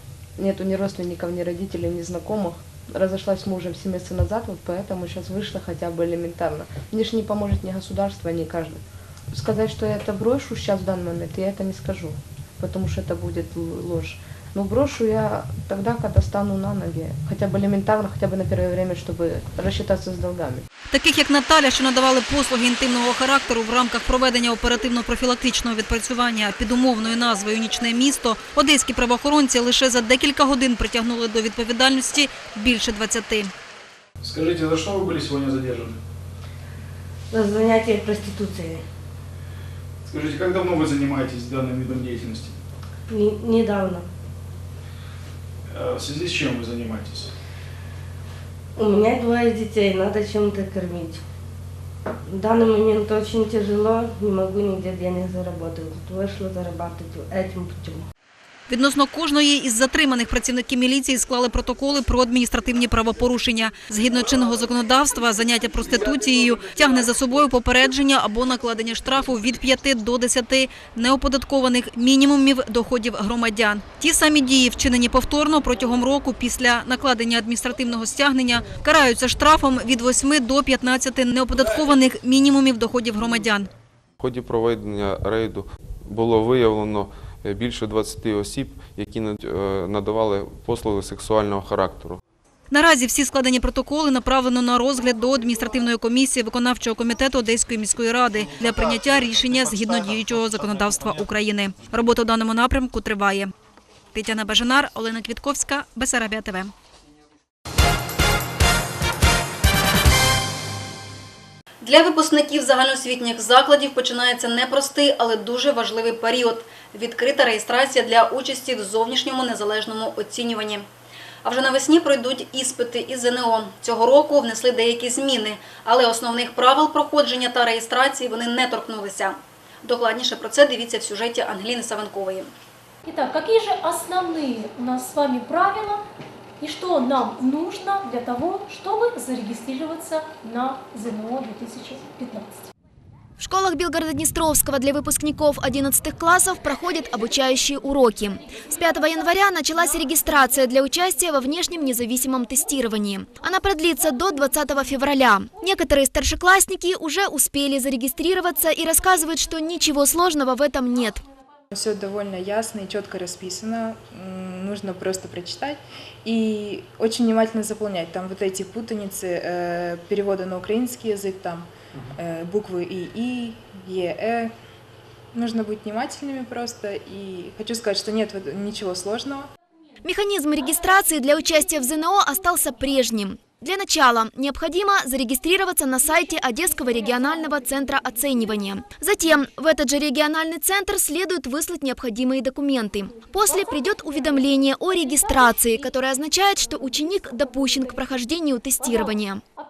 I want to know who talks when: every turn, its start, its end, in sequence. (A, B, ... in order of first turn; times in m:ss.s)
0:00.4-0:20.6 A
0:20.9-0:33.5 B
0:34.2-0:36.0 C
0:37.3-0:38.8 D
0:40.1-0:42.6 C
0:43.1-0:44.1 D
0:45.7-0:47.3 C
0:48.8-0:51.2 D
0:52.2-0:58.0 D
0:58.7-1:23.7 B
1:24.2-1:32.2 E
1:32.7-1:43.5 B
1:44.1-1:46.7 B
1:51.8-2:00.8 B
2:01.4-2:12.5 B
2:13.0-2:16.0 F
2:16.6-2:22.7 F
2:23.4-2:41.2 G
2:41.7-2:54.5 H
2:55.3-2:59.4 H
3:00.0-3:19.4 G